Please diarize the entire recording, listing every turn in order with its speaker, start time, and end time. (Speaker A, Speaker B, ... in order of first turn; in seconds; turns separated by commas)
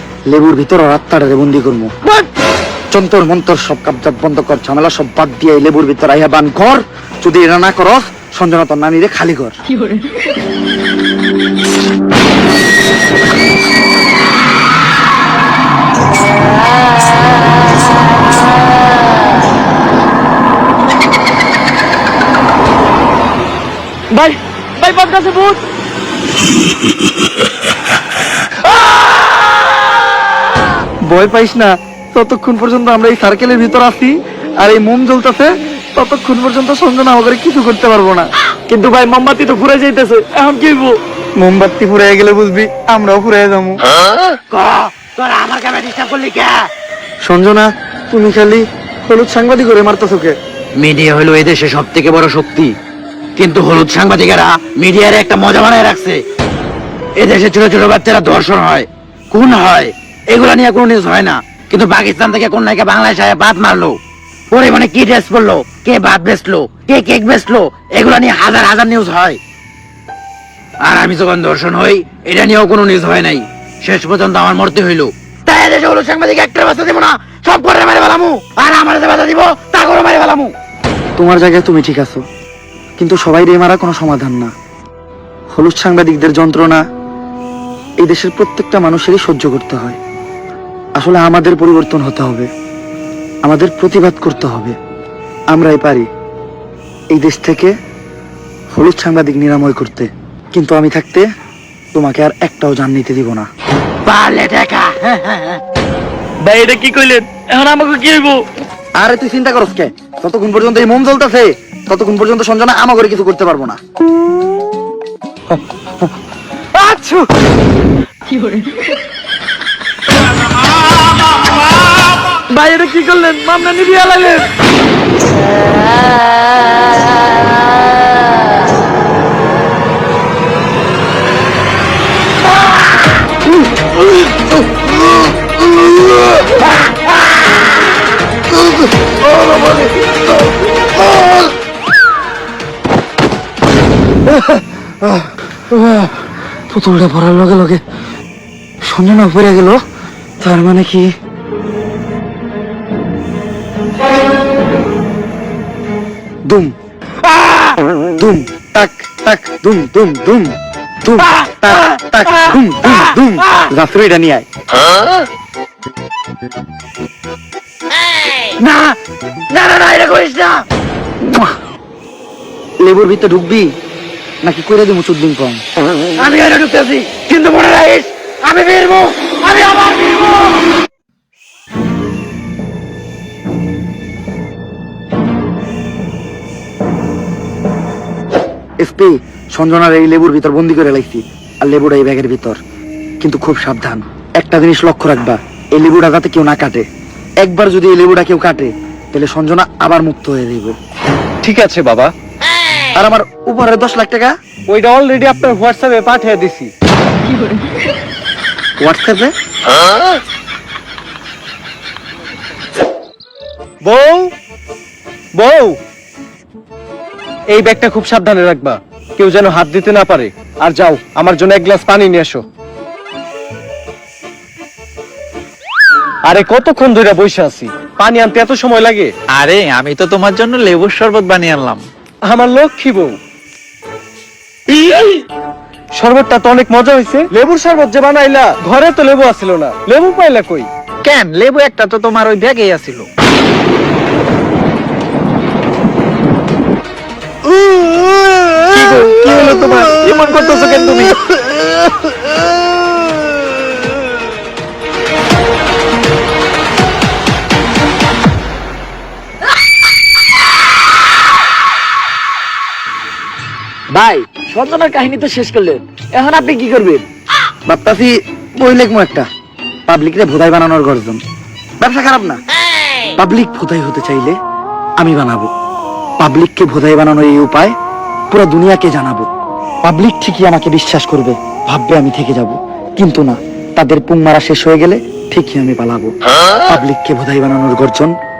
Speaker A: 0.3-1.9, Speaker A: 2.9-9.5, Speaker B: 24.1-25.6, Speaker A: 31.1-38.3, Speaker B: 38.7-41.0, Speaker A: 41.4-43.8, Speaker C: 44.5-46.7, Speaker A: 47.2-50.4, Speaker C: 50.8-52.8, Speaker C: 53.4-56.2, Speaker C: 57.2-64.0, Speaker C: 64.5-69.4, Speaker C: 70.8-80.5, Speaker A: 81.2-82.2, Speaker A: 83.0-84.5, Speaker A: 85.5-86.8, Speaker A: 88.0-90.0, Speaker A: 91.0-92.5, Speaker A: 93.4-94.8, Speaker A: 95.5-96.0, Speaker A: 97.1-97.7, Speaker A: 98.7-101.2, Speaker A: 101.9-103.5, Speaker C: 104.0-105.6, Speaker B: 106.4-108.4, Speaker A: 109.0-113.8, Speaker B: 116.8-117.2, Speaker B: 122.5-124.5, Speaker A: 139.3-140.2, Speaker A: 141.1-141.5, Speaker A: 144.3-147.8, Speaker A: 148.8-149.8, Speaker A: 150.4-151.1, Speaker A: 156.5-156.7, Speaker A: 158.2-164.4, Speaker C: 168.6-169.0, Speaker C: 169.5-170.6, Speaker A: 171.2-171.6, Speaker A: 172.8-173.7, Speaker A: 174.4-175.6, Speaker C: 176.2-180.6, Speaker A: 188.8-192.6, Speaker A: 193.2-196.8, Speaker A: 197.4-200.8, Speaker D: 201.4-202.1, Speaker A: 202.9-204.3, Speaker D: 204.7-206.7, Speaker A: 208.8-209.3, Speaker D: 213.8-214.3, Speaker D: 215.4-215.8, Speaker D: 217.5-222.4, Speaker D: 226.3-229.1, Speaker E: 229.3-231.8, Speaker D: 232.3-233.2, Speaker D: 234.7-235.2, Speaker D: 236.0-240.7, Speaker E: 241.0-243.1, Speaker E: 248.6-251.2, Speaker B: 263.9-267.1, Speaker A: 267.7-269.3, Speaker A: 269.9-271.2, Speaker A: 271.8-272.4, Speaker A: 273.2-274.4, Speaker A: 275.0-275.5, Speaker A: 276.2-277.7, Speaker A: 278.3-279.3, Speaker A: 279.8-286.1, Speaker A: 286.6-288.1